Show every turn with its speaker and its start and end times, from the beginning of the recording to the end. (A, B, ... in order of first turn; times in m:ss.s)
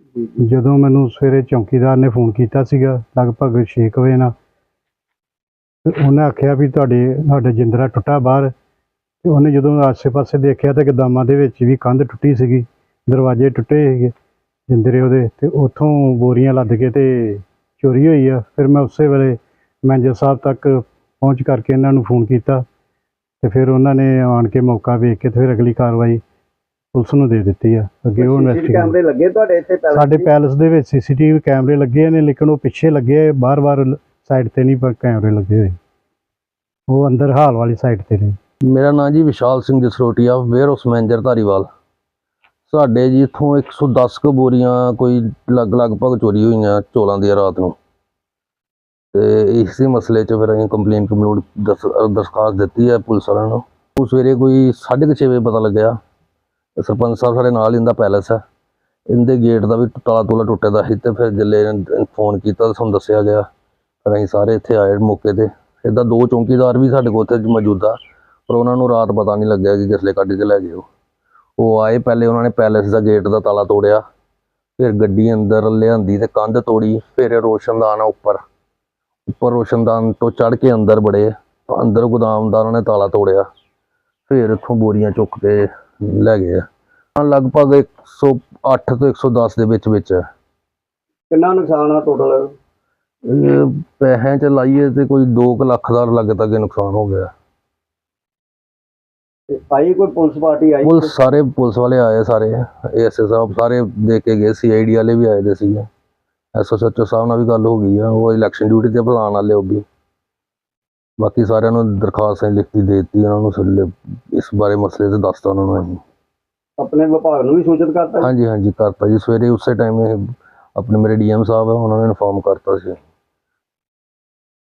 0:00.4-0:04.3 A
0:05.8-0:08.5 A
0:09.2-0:14.1 A
0:14.7-0:22.6 A
0:23.4-0:26.2 A
0:26.9-0:29.0 A
0:28.2-0:30.3 B
0:29.9-0:35.8 A
0:36.9-0:38.4 A
0:38.7-0:41.7 C
0:42.7-0:47.7 C
0:49.1-0:56.0 C
0:56.8-0:58.4 C
0:59.1-1:03.4 C
1:04.0-1:08.0 C
1:08.5-1:10.8 C
1:11.6-1:14.0 C
1:14.8-1:18.4 C
1:19.3-1:23.4 C
1:24.3-1:26.6 C
1:27.2-1:30.2 C
1:31.3-1:32.5 B
1:33.3-1:37.3 C
1:39.5-1:41.1 B
1:40.8-1:45.9 C
1:46.6-1:49.8 C
1:51.2-1:56.0 C
1:56.8-1:58.3 B
1:58.2-2:03.0 C